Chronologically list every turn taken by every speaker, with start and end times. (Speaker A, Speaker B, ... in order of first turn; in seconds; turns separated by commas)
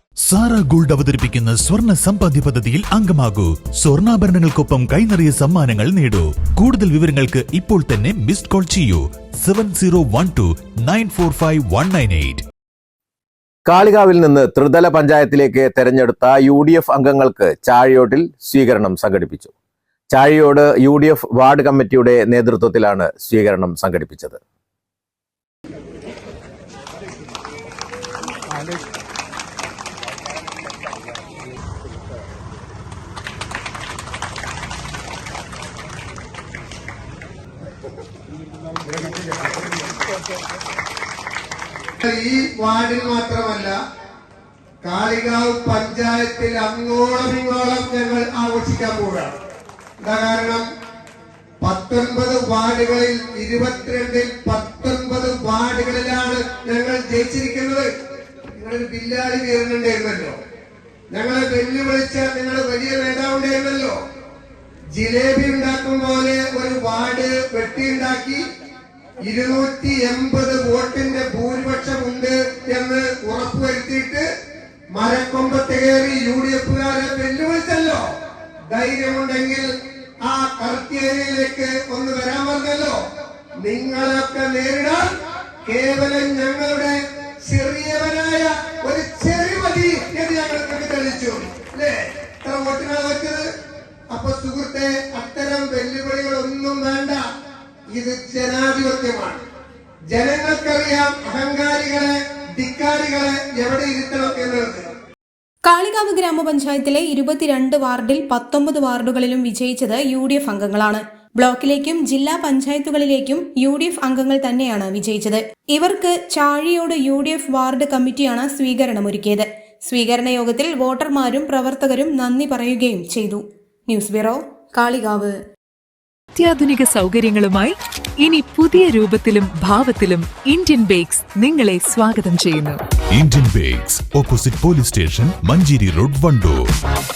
Speaker A: 0.3-12.4, Speaker B: 13.7-19.5, Speaker B: 20.1-24.4, Speaker C: 42.0-43.8, Speaker C: 44.8-49.3, Speaker C: 50.0-50.7, Speaker C: 51.6-57.9, Speaker C: 58.6-60.4, Speaker C: 61.1-64.0, Speaker C: 65.0-68.4, Speaker C: 69.3-74.3, Speaker C: 75.0-78.0, Speaker C: 78.7-83.0, Speaker C: 83.6-85.1, Speaker C: 85.7-86.9, Speaker C: 87.5-93.5, Speaker C: 94.1-97.2, Speaker C: 97.9-99.4, Speaker C: 100.1-104.8, Speaker D: 105.7-125.4, Speaker E: 126.3-132.8, Speaker A: 133.2-136.6